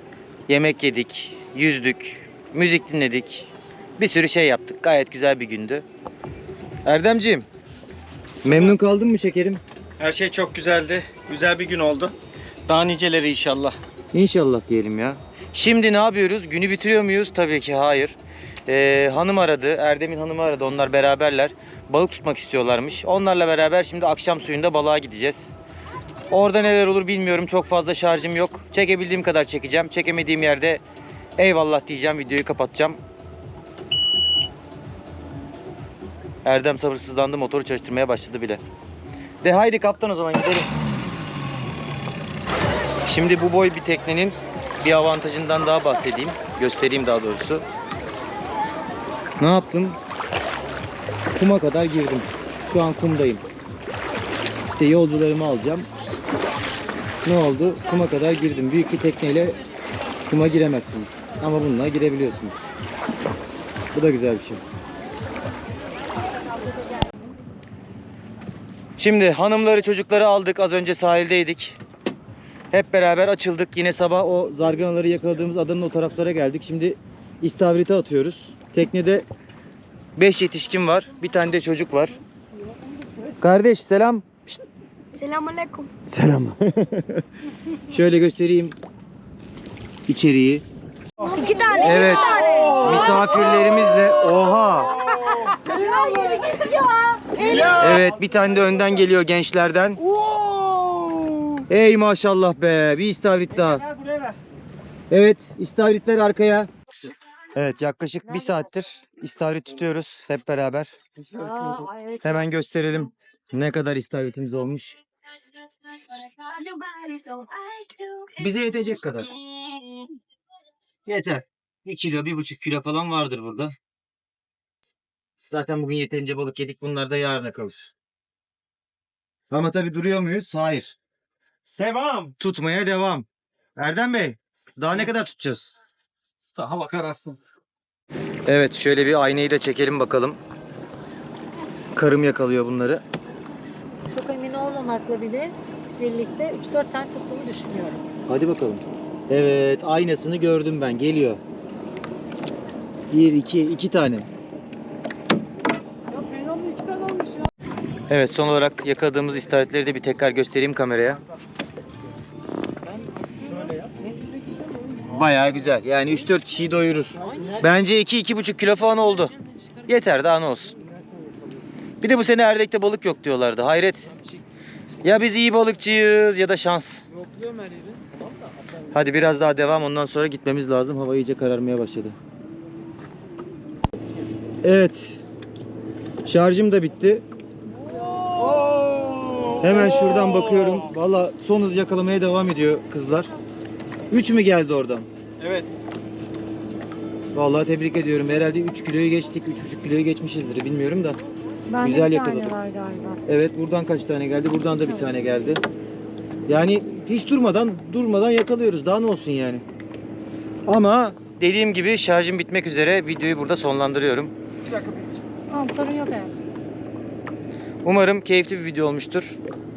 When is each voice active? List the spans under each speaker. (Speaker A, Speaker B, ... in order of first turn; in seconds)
Speaker A: 0.5-5.8, 6.8-7.5, 8.4-9.6, 14.1-25.5, 26.3-30.8, 31.4-33.0, 36.4-38.6, 39.4-40.7, 43.0-47.6, 49.4-50.0, 51.4-53.4, 54.7-55.9, 57.2-59.6, 60.3-62.7, 63.9-64.6, 69.0-71.8, 72.7-79.2, 80.2-82.2, 83.4-84.4, 86.1-87.2, 87.9-88.8, 90.1-90.6, 91.8-95.1, 97.7-100.0, 101.7-103.8, 105.1-106.7, 107.5-111.0, 112.2-115.0, 118.3-119.3, 121.0-123.8, 125.4-127.9, 129.5-130.9, 132.4-135.7, 138.5-140.4, 141.9-143.0, 148.3-151.4, 153.1-154.3, 158.1-161.2, 165.1-169.3, 169.9-170.8, 172.0-174.1, 175.0-177.1, 178.9-182.2, 184.6-185.2, 186.2-187.2, 189.6-193.3, 194.1-195.1, 197.3-201.2, 201.8-202.6, 203.3-205.6, 206.5-209.6, 210.7-214.3, 217.8-219.4
Speaker B: 8.4-8.8, 10.0-12.2, 12.7-13.8, 92.4-93.7, 95.0-95.6, 97.5-98.1, 100.1-101.5, 103.7-104.4, 131.6-132.3, 136.5-137.4, 188.1-190.9, 195.4-195.8, 214.6-215.2
Speaker C: 85.2-85.9, 91.2-92.8, 95.7-97.6, 116.7-118.0
Speaker D: 91.4-92.1, 95.7-97.7, 111.4-112.2, 116.8-117.7, 144.1-148.0, 201.7-203.2, 215.5-216.3